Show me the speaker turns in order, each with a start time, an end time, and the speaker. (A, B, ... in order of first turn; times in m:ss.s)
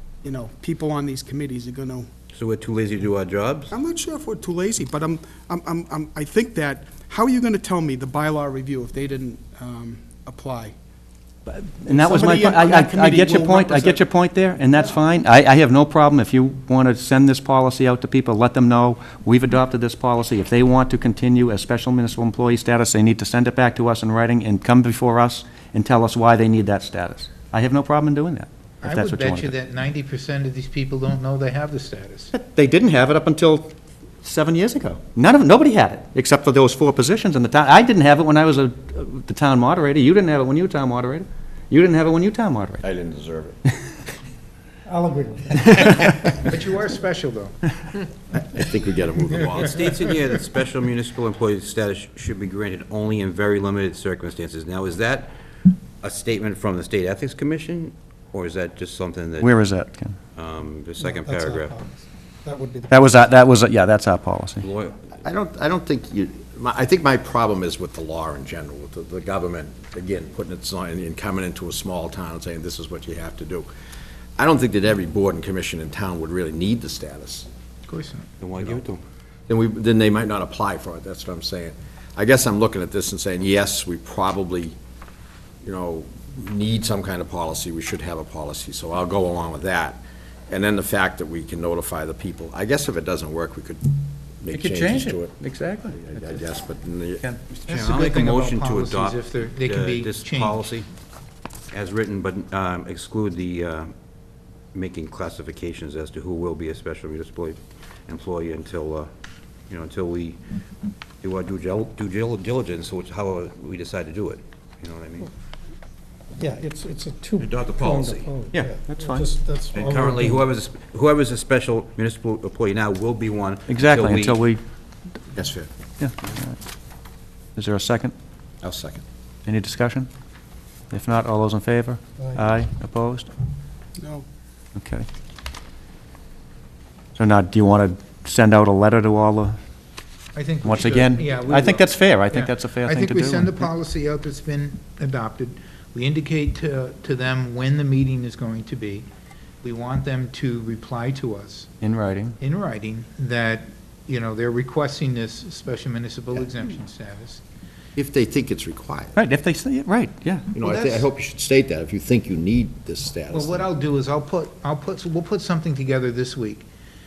0:00.2-0:02.1 A
0:02.3-0:03.7 B
0:03.7-0:10.7 A
0:11.5-0:29.6 C
0:11.9-0:14.0 A
0:28.8-0:32.3 D
0:32.3-0:42.8 C
0:42.8-0:43.6 E
0:44.9-0:46.2 F
0:45.6-0:46.3 C
0:46.5-0:47.6 D
0:48.3-0:49.9 E
0:49.6-0:55.3 B
0:56.0-0:59.5 B
0:59.4-1:00.2 C
1:00.4-1:01.8 B
1:01.0-1:03.1 F
1:02.9-1:04.7 C
1:04.6-1:05.1 B
1:05.2-1:13.7 E
1:14.4-1:17.5 E
1:17.9-1:18.3 D
1:18.4-1:19.0 B
1:19.5-1:24.8 E
1:25.6-1:35.4 E
1:34.5-1:36.4 C
1:35.9-1:37.2 E
1:37.2-1:37.5 C
1:37.5-1:40.9 B
1:37.7-1:40.7 D
1:41.7-1:43.9 B
1:44.7-1:49.1 B
1:49.7-1:50.4 B
1:51.2-1:55.3 B
1:56.4-2:00.4 F
1:57.4-1:58.5 B
1:58.5-1:59.3 C
1:59.7-2:04.4 B
2:03.7-2:04.6 C
2:05.4-2:05.7 E
2:06.0-2:06.6 C
2:07.6-2:08.1 C
2:08.6-2:09.0 E
2:09.5-2:10.1 C
2:10.9-2:13.3 C
2:14.0-2:14.2 A
2:14.8-2:15.1 C
2:17.2-2:19.6 C
2:20.3-2:29.1 D
2:20.6-2:23.6 C
2:29.6-2:31.7 D
2:31.8-2:32.4 C
2:32.4-2:37.4 D
2:38.0-2:39.2 E
2:39.2-2:40.5 C
2:40.5-2:43.7 E
2:40.6-2:41.1 D
2:43.3-2:46.7 D